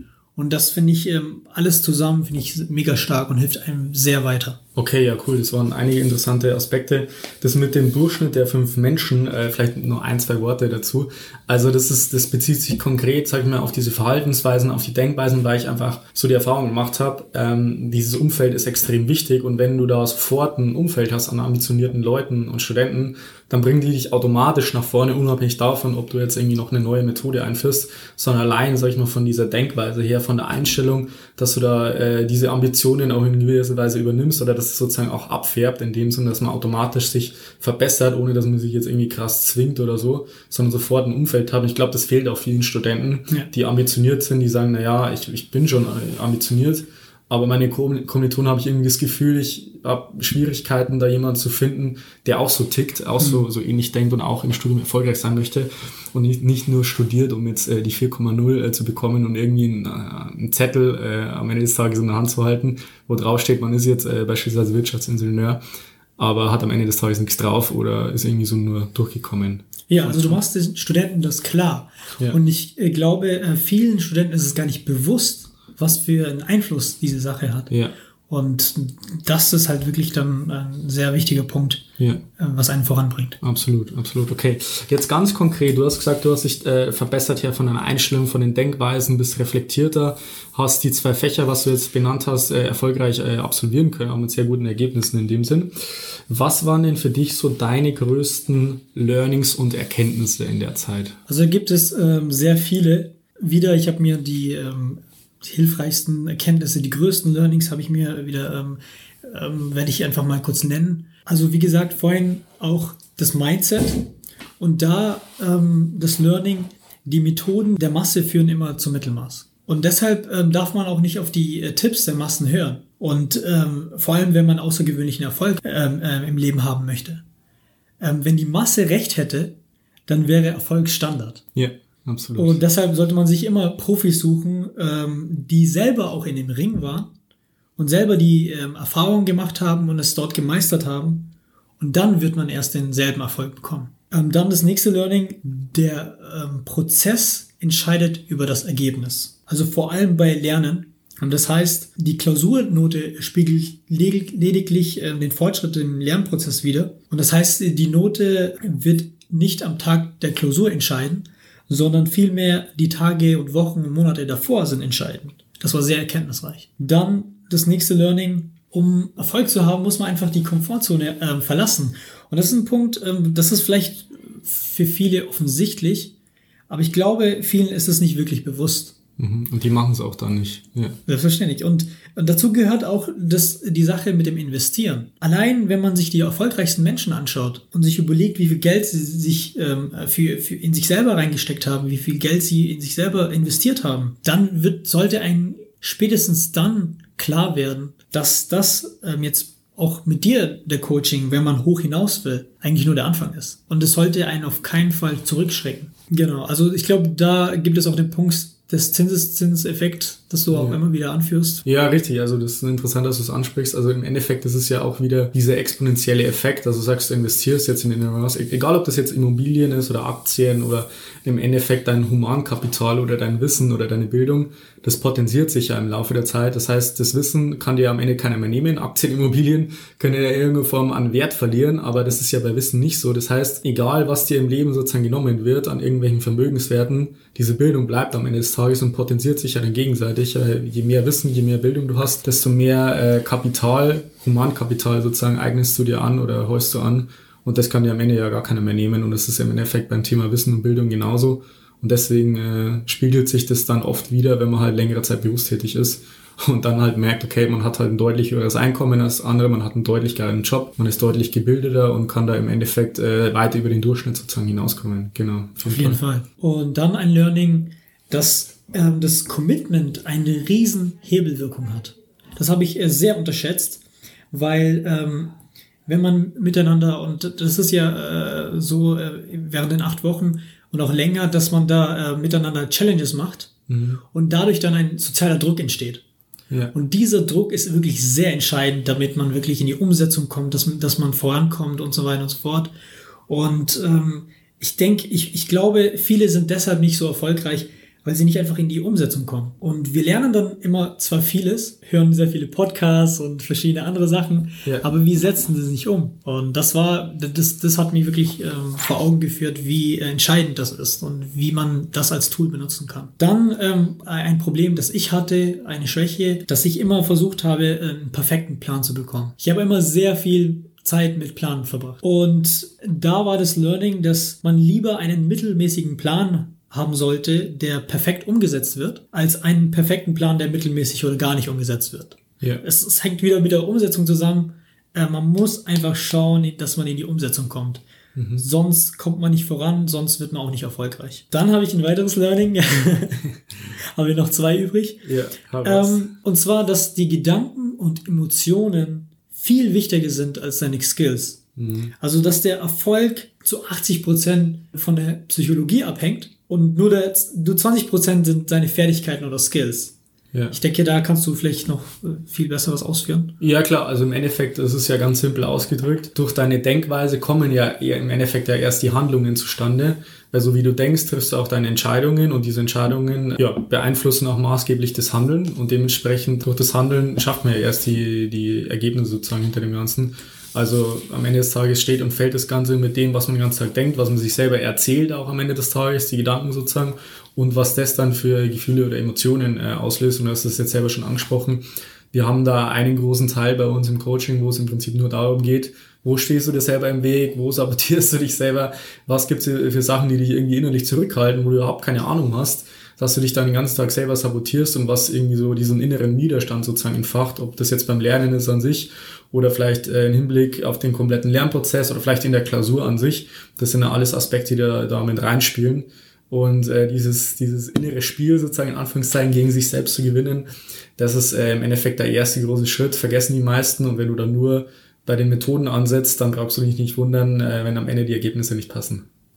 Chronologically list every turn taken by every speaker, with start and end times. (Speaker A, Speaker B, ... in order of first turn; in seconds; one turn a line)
Speaker A: 0.4-4.6
Speaker B: 4.8-65.6
Speaker A: 53.2-53.5
Speaker B: 66.2-70.4
Speaker A: 69.9-77.7
Speaker A: 78.3-81.8
Speaker A: 82.4-83.4
Speaker B: 83.4-101.2
Speaker A: 101.3-127.2
Speaker A: 128.0-129.6
Speaker A: 130.1-131.4
Speaker B: 131.6-132.6
Speaker A: 132.4-137.1
Speaker A: 137.8-176.1
Speaker A: 176.7-179.0
Speaker B: 179.2-181.0
Speaker A: 181.1-211.6
Speaker B: 210.5-210.8
Speaker B: 211.7-266.0
Speaker A: 265.7-275.3
Speaker A: 275.9-283.5
Speaker B: 283.7-284.0
Speaker A: 284.1-286.0
Speaker A: 286.7-292.7
Speaker A: 293.3-337.8
Speaker B: 338.1-338.5
Speaker A: 338.4-345.1
Speaker B: 345.0-346.1
Speaker A: 345.6-351.4
Speaker B: 351.6-351.9
Speaker A: 352.0-359.9
Speaker A: 360.5-363.4
Speaker B: 363.4-429.1